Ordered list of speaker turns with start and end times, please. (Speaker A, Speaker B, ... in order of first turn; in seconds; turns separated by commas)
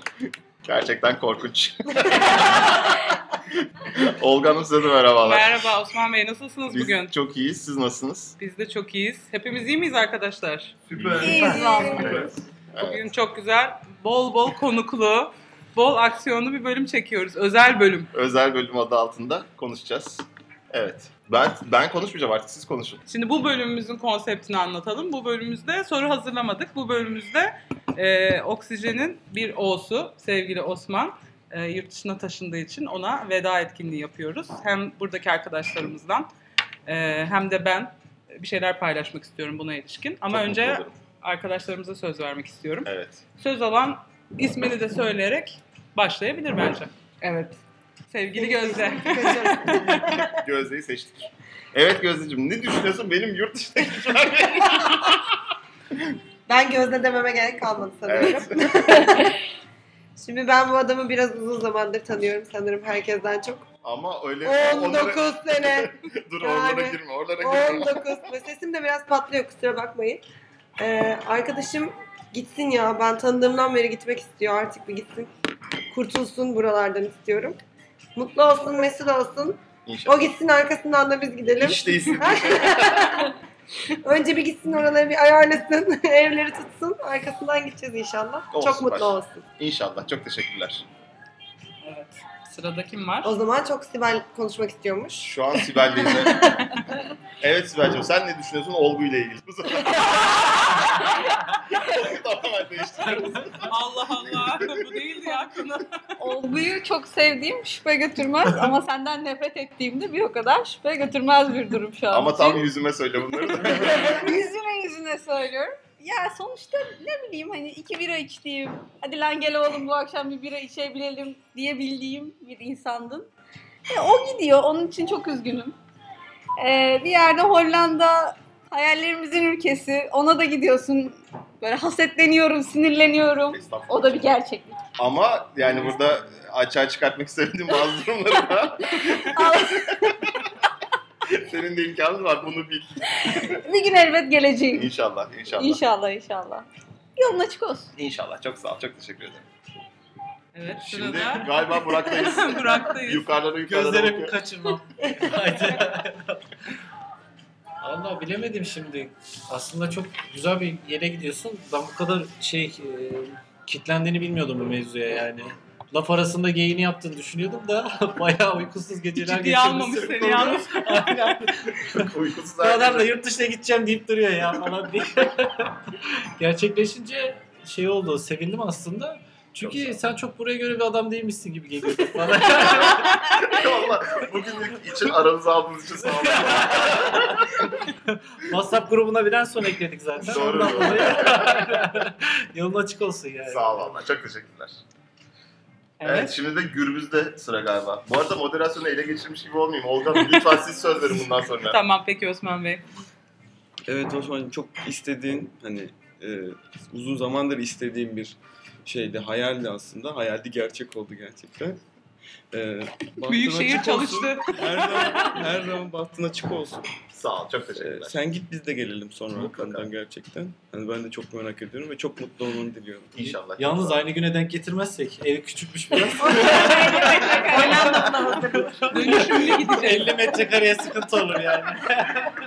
Speaker A: 0.7-3.1, Speaker A: 3.8-5.6, Speaker B: 5.2-7.1, Speaker A: 6.7-8.4, Speaker B: 8.4-10.7, Speaker A: 10.9-13.1, Speaker C: 11.2-12.2, Speaker D: 11.3-12.3, Speaker B: 11.5-12.1, Speaker B: 12.8-18.1, Speaker A: 18.1-23.0, Speaker B: 23.1-36.3, Speaker B: 36.9-50.1, Speaker A: 40.3-41.0, Speaker A: 42.9-43.2, Speaker D: 48.4-50.3, Speaker A: 50.3-55.3, Speaker D: 56.5-59.4, Speaker A: 58.1-58.6, Speaker D: 60.2-63.6, Speaker A: 63.8-68.0, Speaker D: 64.4-65.9, Speaker D: 66.4-70.2, Speaker D: 70.8-75.3, Speaker D: 75.9-77.6, Speaker D: 78.2-83.3, Speaker A: 79.9-80.3, Speaker A: 81.6-83.0, Speaker D: 83.9-89.4, Speaker A: 88.5-90.8, Speaker B: 91.8-93.3, Speaker D: 93.2-96.6, Speaker A: 95.2-96.5, Speaker A: 97.4-104.7, Speaker B: 103.7-105.9, Speaker C: 106.2-112.7, Speaker E: 108.5-108.7, Speaker A: 112.1-114.3, Speaker C: 113.2-123.3, Speaker C: 123.9-125.8, Speaker C: 126.6-134.8, Speaker A: 133.5-134.4, Speaker A: 135.0-139.7, Speaker C: 139.1-140.1, Speaker A: 141.4-143.5, Speaker C: 143.6-144.9, Speaker A: 144.7-145.8, Speaker C: 145.6-146.7, Speaker C: 147.2-147.9, Speaker A: 148.0-149.5, Speaker B: 150.5-151.6, Speaker A: 150.8-154.4, Speaker B: 152.1-153.3, Speaker E: 153.6-156.4, Speaker E: 157.8-172.1, Speaker B: 169.2-171.4, Speaker A: 172.0-173.2, Speaker E: 172.6-183.2, Speaker A: 179.6-180.0, Speaker A: 182.6-187.5, Speaker E: 188.1-194.0, Speaker A: 190.3-191.7, Speaker A: 193.5-194.8, Speaker B: 196.0-196.3, Speaker A: 196.0-201.8, Speaker B: 200.1-200.6, Speaker B: 201.7-202.8, Speaker F: 203.9-206.4, Speaker F: 207.0-208.4, Speaker F: 208.9-211.7, Speaker F: 212.6-216.8, Speaker B: 213.3-215.3, Speaker A: 217.1-218.4, Speaker F: 217.8-223.2, Speaker A: 219.3-219.9, Speaker A: 223.1-224.0, Speaker E: 223.2-232.3, Speaker C: 226.2-228.4, Speaker B: 228.9-230.3